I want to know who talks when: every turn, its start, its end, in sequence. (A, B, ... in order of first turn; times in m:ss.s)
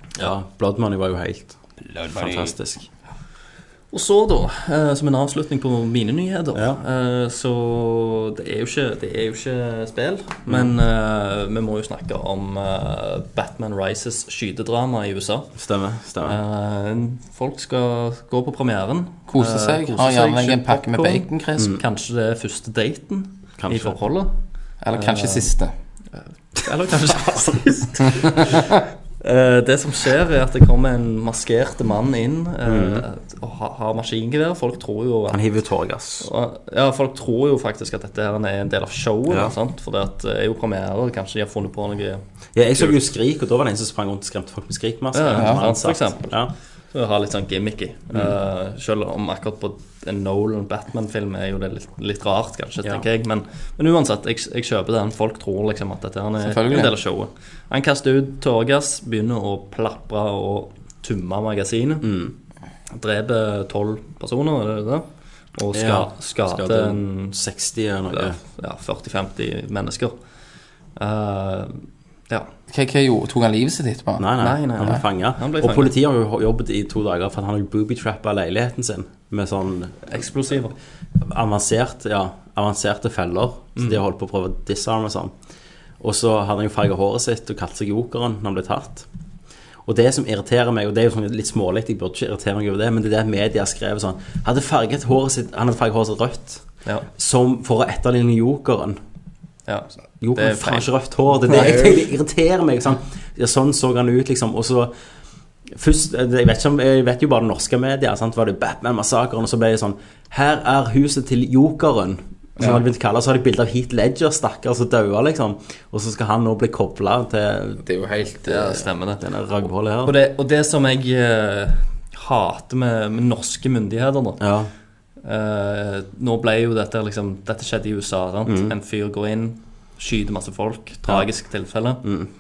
0:00.2-0:02.9 A
0:03.9-0:15.5 B
0:06.5-0:06.8 A
0:15.6-0:16.4 A
0:16.2-0:24.3 B
0:19.3-0:21.8 C
0:23.6-0:24.0 A
0:24.8-0:25.7 C
0:24.9-0:25.5 B
0:26.1-0:35.4 B
0:32.6-0:33.1 A
0:35.3-0:36.3 A
0:36.2-0:42.2 B
0:39.3-0:39.5 A
0:42.6-0:46.5 A
0:42.8-0:43.0 B
0:45.1-0:46.4 B
0:46.9-1:02.1 B
0:56.4-0:56.9 C
1:02.0-1:02.3 A
1:02.9-1:07.4 B
1:05.7-1:08.4 A
1:08.1-1:10.2 B
1:11.0-1:12.5 B
1:12.7-1:14.3 C
1:14.2-1:20.2 A
1:14.4-1:15.9 B
1:20.1-1:20.8 B
1:21.2-1:25.3 A
1:26.0-1:29.1 A
1:29.8-1:39.0 A
1:39.7-1:40.9 B
1:40.2-1:44.9 A
1:41.5-1:41.9 B
1:45.7-1:57.8 A
1:57.8-1:58.8 C
1:58.4-1:59.2 B
1:59.2-2:00.2 A
2:00.0-2:04.4 B
2:04.4-2:04.7 A
2:05.2-2:12.0 B
2:08.5-2:08.8 A
2:12.0-2:12.3 A